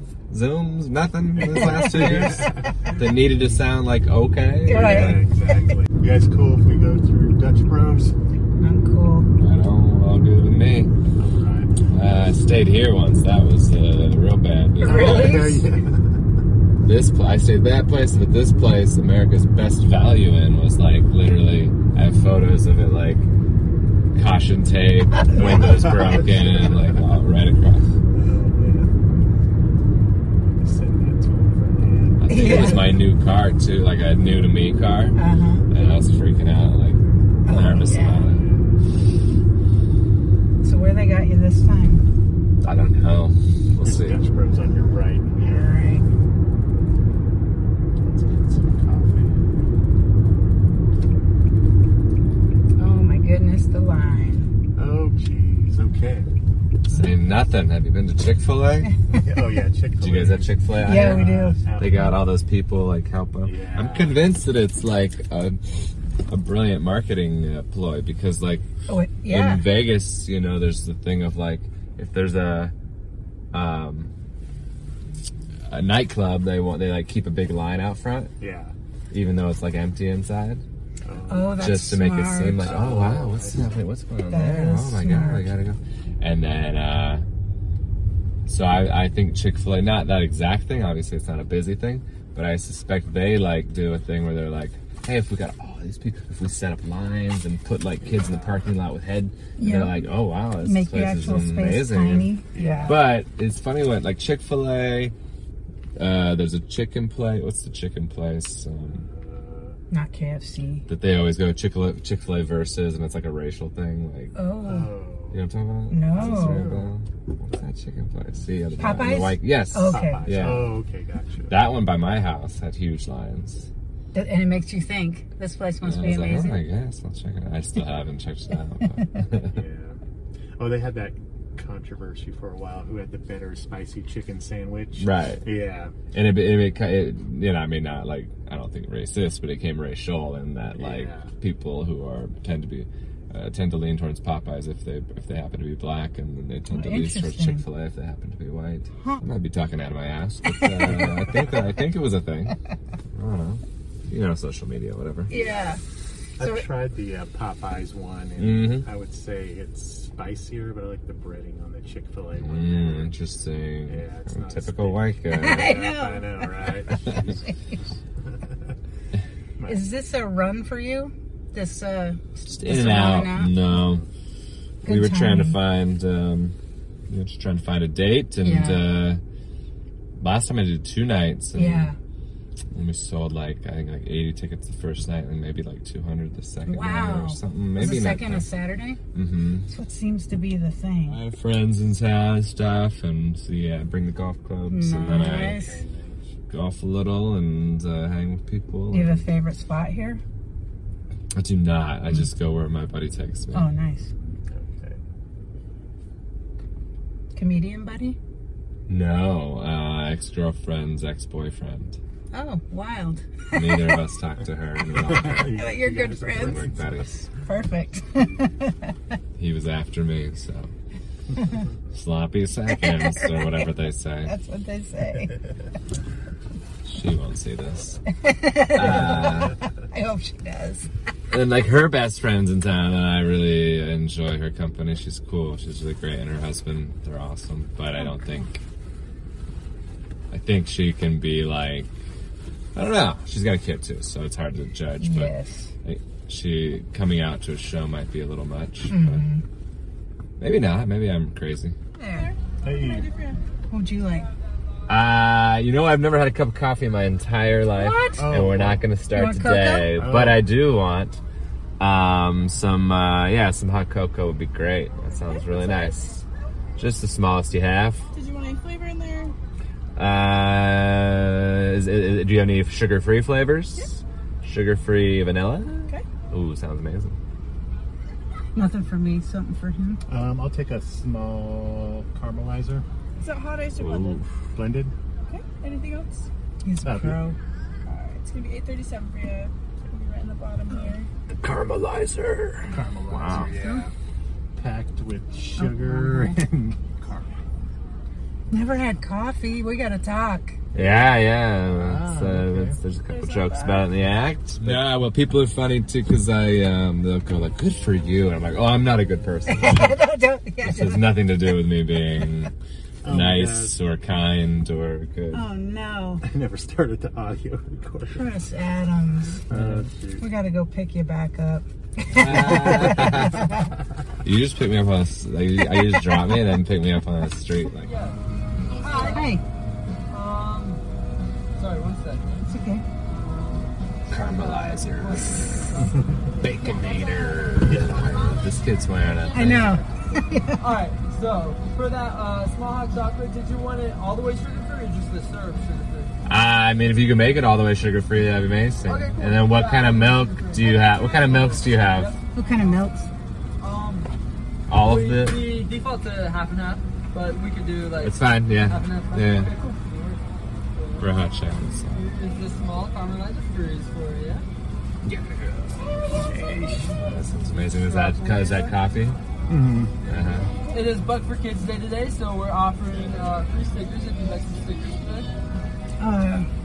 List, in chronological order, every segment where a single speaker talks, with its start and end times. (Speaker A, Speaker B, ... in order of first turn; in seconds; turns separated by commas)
Speaker A: 0.3-5.3, Speaker B: 1.4-3.6, Speaker C: 1.5-2.3, Speaker C: 4.7-5.2, Speaker B: 4.7-8.1, Speaker C: 8.6-9.3, Speaker A: 9.4-10.9, Speaker B: 11.2-11.8, Speaker A: 11.9-15.6, Speaker C: 14.8-15.7, Speaker B: 14.8-16.2, Speaker A: 16.8-23.3, Speaker A: 24.1-27.9, Speaker B: 25.3-26.9, Speaker B: 28.1-28.9, Speaker B: 30.6-32.9, Speaker A: 32.2-35.2, Speaker C: 32.3-33.0, Speaker C: 35.2-35.7, Speaker A: 35.7-38.4, Speaker C: 37.5-38.3, Speaker B: 38.2-38.8, Speaker C: 40.6-42.0, Speaker A: 42.6-44.2, Speaker B: 43.8-45.8, Speaker C: 45.4-46.1, Speaker B: 48.0-49.5, Speaker C: 52.8-54.5, Speaker B: 54.8-56.3, Speaker A: 56.9-58.9, Speaker B: 59.1-62.1, Speaker A: 60.0-65.6, Speaker C: 60.8-61.6, Speaker B: 63.5-64.2, Speaker A: 66.3-68.7, Speaker C: 68.9-69.7, Speaker A: 69.3-72.7, Speaker A: 73.5-74.1, Speaker A: 75.7-78.3, Speaker B: 78.4-78.7, Speaker A: 79.1-80.6, Speaker B: 81.0-81.6, Speaker C: 81.3-82.7, Speaker A: 81.5-87.2, Speaker B: 82.5-83.6, Speaker C: 84.3-85.5, Speaker A: 88.5-102.3, Speaker B: 98.0-98.6, Speaker C: 99.6-100.0, Speaker C: 100.6-103.0, Speaker B: 102.5-103.1, Speaker A: 102.8-105.2, Speaker A: 106.0-109.1, Speaker B: 108.9-109.8, Speaker C: 109.9-110.8, Speaker A: 110.9-114.3, Speaker C: 114.3-114.9, Speaker B: 114.6-115.4, Speaker A: 115.3-120.8, Speaker C: 115.9-116.7, Speaker B: 116.1-116.9, Speaker C: 118.8-120.3, Speaker B: 119.9-121.6, Speaker A: 121.5-123.7, Speaker C: 124.1-126.6, Speaker A: 125.8-129.6, Speaker B: 129.5-130.0, Speaker B: 130.6-135.9, Speaker A: 135.0-135.5, Speaker A: 136.1-152.6, Speaker B: 140.8-141.3, Speaker C: 146.7-147.6, Speaker C: 150.6-151.1, Speaker A: 153.1-155.3, Speaker C: 155.3-155.8, Speaker B: 155.3-155.8, Speaker B: 156.4-163.1, Speaker C: 156.4-156.7, Speaker A: 158.4-158.9, Speaker A: 162.4-165.8, Speaker B: 163.9-167.5, Speaker C: 165.3-166.5, Speaker A: 166.9-167.3, Speaker B: 168.2-168.8, Speaker C: 169.7-173.6, Speaker A: 172.5-174.0, Speaker B: 173.8-174.1, Speaker A: 174.8-176.6, Speaker C: 174.8-175.6, Speaker A: 177.1-179.2, Speaker C: 178.4-178.9, Speaker A: 180.2-181.9, Speaker C: 181.6-182.0, Speaker A: 182.7-188.5, Speaker C: 186.7-189.0, Speaker A: 189.1-189.7, Speaker C: 189.7-191.2, Speaker A: 191.1-195.6, Speaker C: 194.7-195.8, Speaker B: 195.4-196.3, Speaker A: 196.5-199.3, Speaker C: 198.9-200.2, Speaker A: 201.3-203.7, Speaker C: 203.5-204.1, Speaker B: 204.5-205.0, Speaker C: 207.3-208.2, Speaker A: 208.9-212.0, Speaker C: 212.3-214.0, Speaker A: 213.5-215.6, Speaker B: 214.9-216.9, Speaker C: 215.5-216.6, Speaker A: 216.3-217.3, Speaker C: 217.4-218.9, Speaker A: 219.4-220.7, Speaker A: 221.9-224.3, Speaker C: 222.7-223.5, Speaker C: 224.2-225.4, Speaker A: 226.8-228.0, Speaker C: 228.1-230.9, Speaker A: 228.8-229.6, Speaker A: 231.3-238.6, Speaker A: 240.3-241.9, Speaker A: 242.8-245.3, Speaker C: 245.0-245.7, Speaker A: 245.8-249.2, Speaker C: 248.9-249.4, Speaker A: 250.4-251.8, Speaker C: 252.0-252.3, Speaker D: 252.1-253.4, Speaker B: 252.6-253.1, Speaker C: 253.7-254.3, Speaker A: 254.9-261.2, Speaker C: 257.7-258.3, Speaker B: 258.2-258.8, Speaker C: 259.1-259.9, Speaker B: 259.9-260.4, Speaker A: 261.8-266.2, Speaker A: 266.8-268.1, Speaker D: 268.1-269.3, Speaker A: 270.0-277.2, Speaker C: 278.6-280.0, Speaker B: 280.1-282.9, Speaker D: 283.2-284.2, Speaker A: 283.8-284.4, Speaker B: 284.6-284.9, Speaker D: 285.3-286.3, Speaker C: 286.6-287.4, Speaker B: 286.8-287.2, Speaker D: 287.9-291.1, Speaker A: 291.4-293.5, Speaker B: 292.7-293.9, Speaker C: 293.3-293.8, Speaker B: 294.6-297.5, Speaker C: 295.6-296.4, Speaker C: 298.5-300.6, Speaker A: 300.7-310.0, Speaker B: 301.7-302.8, Speaker C: 303.2-303.8, Speaker C: 309.5-311.1, Speaker A: 310.6-312.5, Speaker B: 313.0-313.7, Speaker A: 313.1-315.4, Speaker C: 315.3-316.2, Speaker B: 316.2-318.3, Speaker C: 318.1-319.4, Speaker B: 319.5-320.3, Speaker A: 319.5-319.9, Speaker C: 320.2-323.7, Speaker A: 322.1-323.5, Speaker B: 322.4-323.2, Speaker A: 324.2-327.9, Speaker E: 327.8-329.4, Speaker C: 328.8-329.4, Speaker D: 329.1-329.3, Speaker E: 330.1-330.8, Speaker E: 331.6-332.5, Speaker C: 332.5-332.8, Speaker E: 333.1-337.2, Speaker A: 334.1-335.8, Speaker A: 336.4-339.8, Speaker B: 337.6-338.1, Speaker E: 337.8-338.4, Speaker E: 339.0-339.8, Speaker C: 339.3-340.6, Speaker E: 340.6-346.1, Speaker A: 346.2-352.1, Speaker E: 348.9-352.8, Speaker C: 352.4-353.1, Speaker E: 353.6-354.1, Speaker A: 354.7-355.5, Speaker E: 354.7-360.2, Speaker A: 358.0-359.5, Speaker E: 360.8-361.2, Speaker A: 361.0-362.1, Speaker E: 361.9-364.4, Speaker A: 365.0-365.9, Speaker A: 366.9-369.2, Speaker E: 367.7-368.8, Speaker B: 369.5-369.9, Speaker A: 370.1-370.5, Speaker E: 370.7-375.3, Speaker C: 376.0-376.5